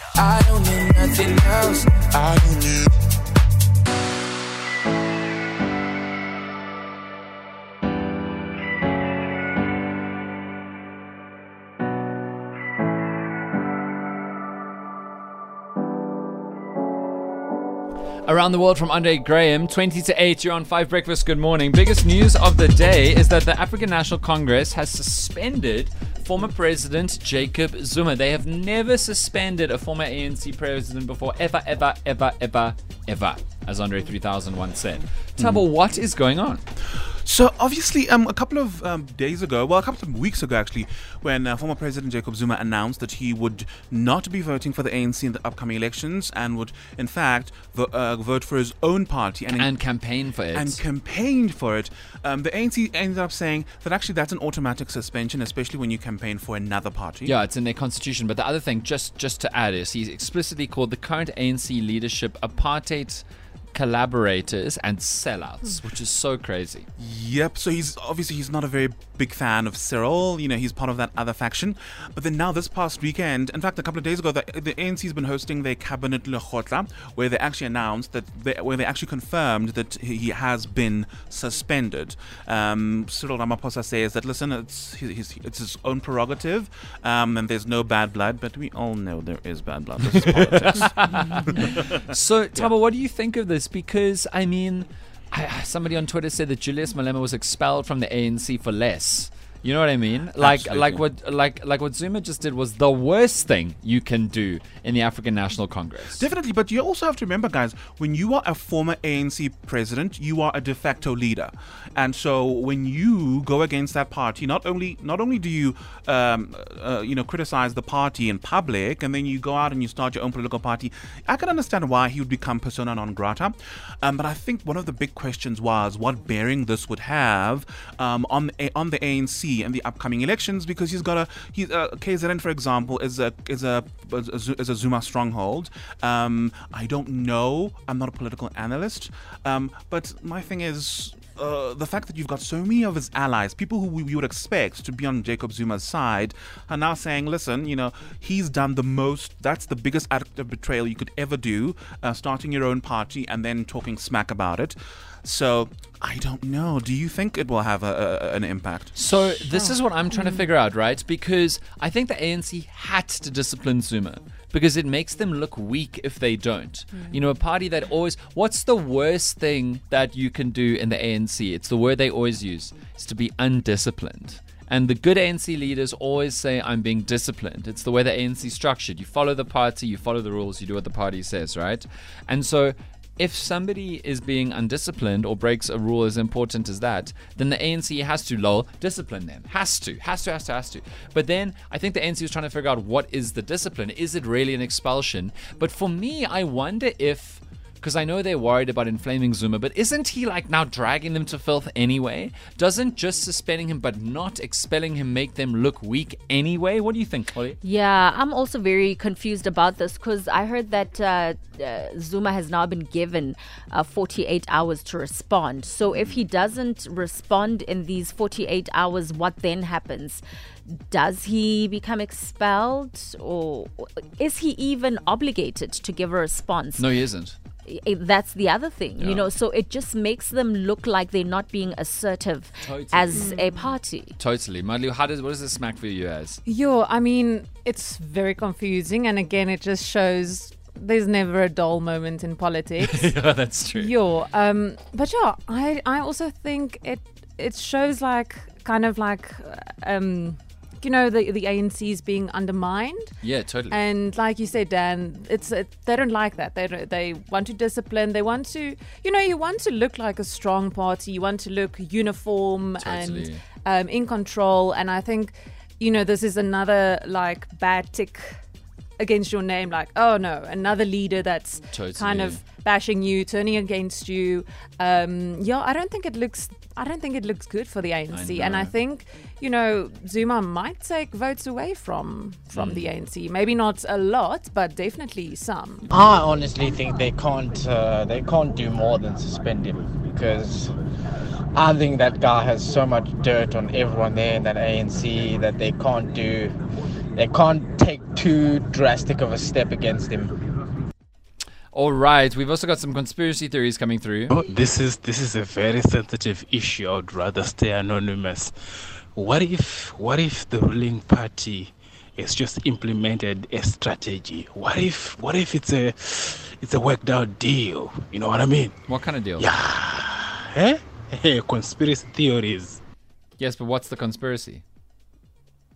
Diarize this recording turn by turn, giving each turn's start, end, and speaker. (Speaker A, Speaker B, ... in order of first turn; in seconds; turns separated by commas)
Speaker A: 0.2-2.9, Speaker B: 18.2-36.6, Speaker C: 36.9-49.8, Speaker B: 49.5-50.8, Speaker C: 50.5-57.3, Speaker B: 57.2-66.9, Speaker C: 67.0-91.8, Speaker B: 90.1-106.2, Speaker C: 100.4-101.0, Speaker C: 106.1-159.0, Speaker B: 158.9-207.6, Speaker D: 159.5-160.4, Speaker D: 166.9-167.2, Speaker E: 207.6-226.9, Speaker C: 215.9-216.2, Speaker B: 226.8-227.4, Speaker E: 227.6-234.1, Speaker B: 229.0-229.3, Speaker B: 232.6-233.3, Speaker D: 233.1-233.8, Speaker B: 234.2-236.4, Speaker D: 236.4-243.2, Speaker B: 242.8-244.0, Speaker D: 243.7-253.2, Speaker B: 253.2-253.8, Speaker D: 253.7-268.4, Speaker B: 262.8-263.4, Speaker D: 269.0-285.9, Speaker B: 271.7-272.4, Speaker B: 278.1-278.7, Speaker B: 282.5-282.9, Speaker F: 285.9-290.7, Speaker F: 291.5-296.6, Speaker F: 297.1-300.3, Speaker B: 301.7-304.3, Speaker G: 304.3-318.8, Speaker B: 318.9-319.5, Speaker G: 319.4-322.8, Speaker B: 323.4-324.6